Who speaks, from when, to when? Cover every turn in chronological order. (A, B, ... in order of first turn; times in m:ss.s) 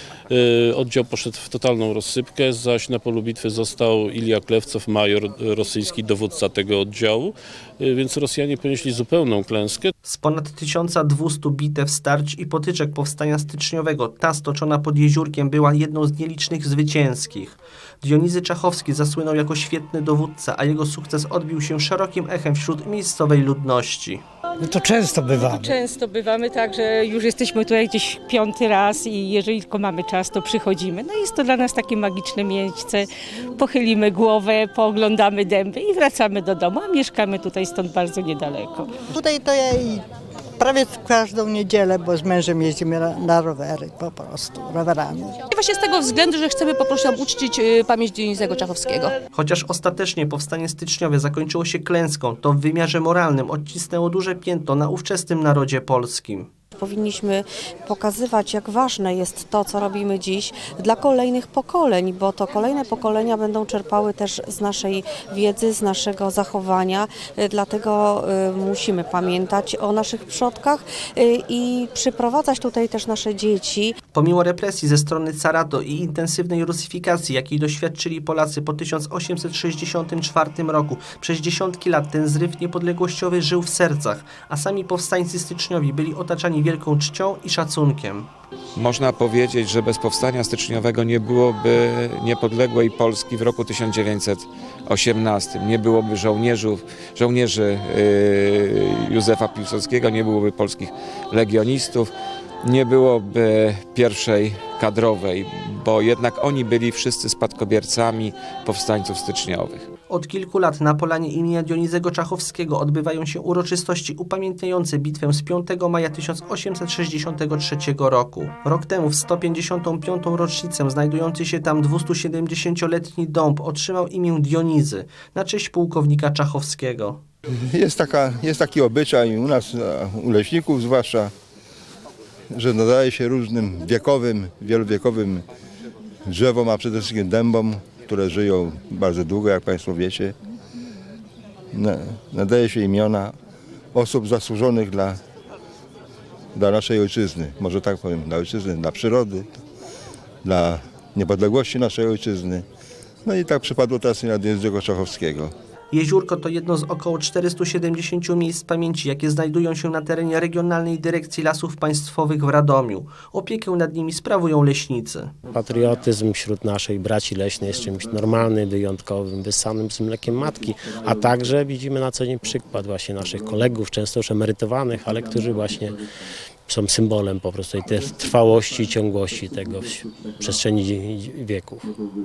0:00.3-0:09.9 A
0:10.1-0:24.2 B
0:24.6-0:25.7 C
0:25.3-0:38.9 D
0:39.1-0:40.0 C
0:40.6-0:45.4 C
0:45.5-0:49.1 E
0:49.4-0:56.5 B
0:56.8-1:14.0 F
1:14.1-1:28.3 B
1:28.8-1:42.1 G
1:42.6-1:49.9 G
1:50.1-2:07.2 B
2:07.6-2:11.3 H
2:12.5-2:15.4 H
2:16.3-2:20.4 H
2:21.7-2:23.3 H
2:23.9-2:25.2 H
2:26.6-2:29.5 H
2:30.4-2:32.6 H
2:33.2-2:35.5 H
2:35.9-2:45.3 B
2:45.5-2:56.0 I
2:56.7-3:01.9 I